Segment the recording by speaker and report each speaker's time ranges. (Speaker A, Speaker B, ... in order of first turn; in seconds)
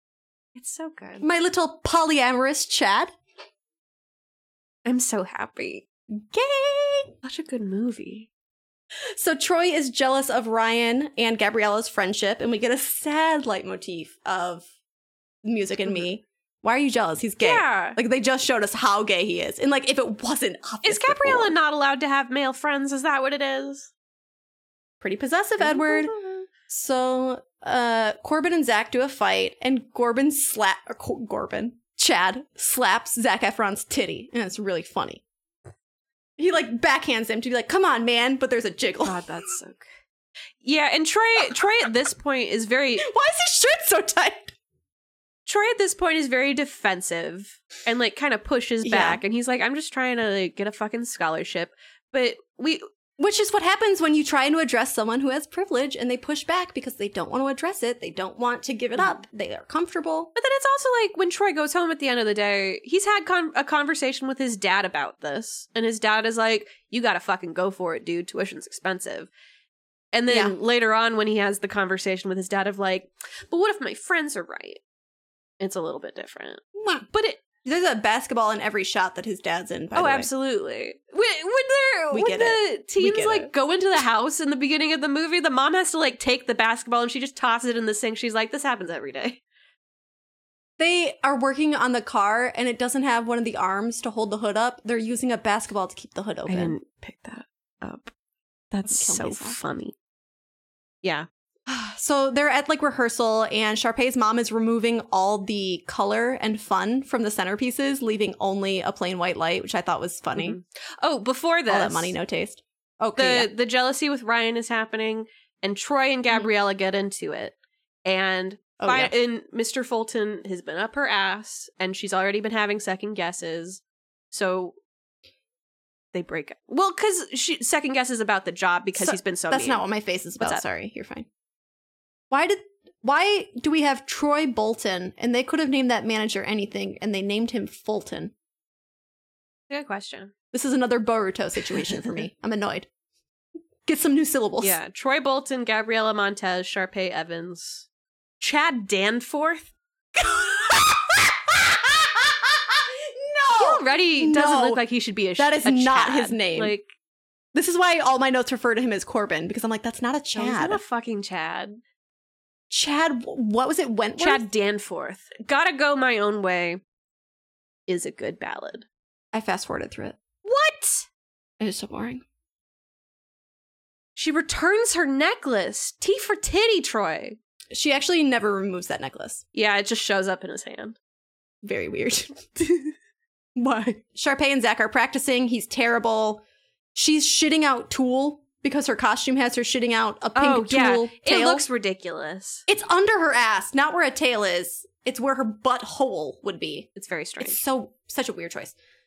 Speaker A: 0.5-1.2, 4.8-5.8, 7.2-8.3, 17.4-18.0, 20.8-23.9, 25.6-26.5, 39.0-39.8, 40.6-43.1, 45.5-52.8, 59.0-59.2, 60.4-69.3, 70.1-74.8, 75.6-77.4, 79.9-89.4, 96.5-98.1, 98.7-99.9, 110.3-112.1, 113.2-124.8, 126.1-129.8, 139.7-140.3, 144.6-147.8, 148.4-149.7, 153.5-156.9, 160.3-161.8, 164.2-166.8, 167.9-168.8, 170.4-171.1, 174.2-177.4, 179.5-180.9, 190.3-192.6, 196.9-197.6
Speaker B: 1.2-3.1, 6.1-7.1, 9.1-14.6, 15.4-21.5, 25.0-35.2, 36.4-39.2, 43.0-44.5, 48.8-49.2, 53.2-60.3, 70.3-70.5, 76.7-77.0, 77.6-80.3, 82.1-83.5, 90.8-96.7, 98.8-99.6, 101.7-110.6, 111.7-113.5, 118.8-119.1, 129.0-131.2, 132.3-138.3, 140.5-142.9, 143.8-144.8, 150.2-154.8, 155.4-156.7, 157.5-160.8, 162.7-164.4, 169.3-170.2, 171.6-172.2, 177.7-179.4, 181.6-182.7, 183.6-186.4, 186.9-191.7, 192.7-196.9, 197.4-198.7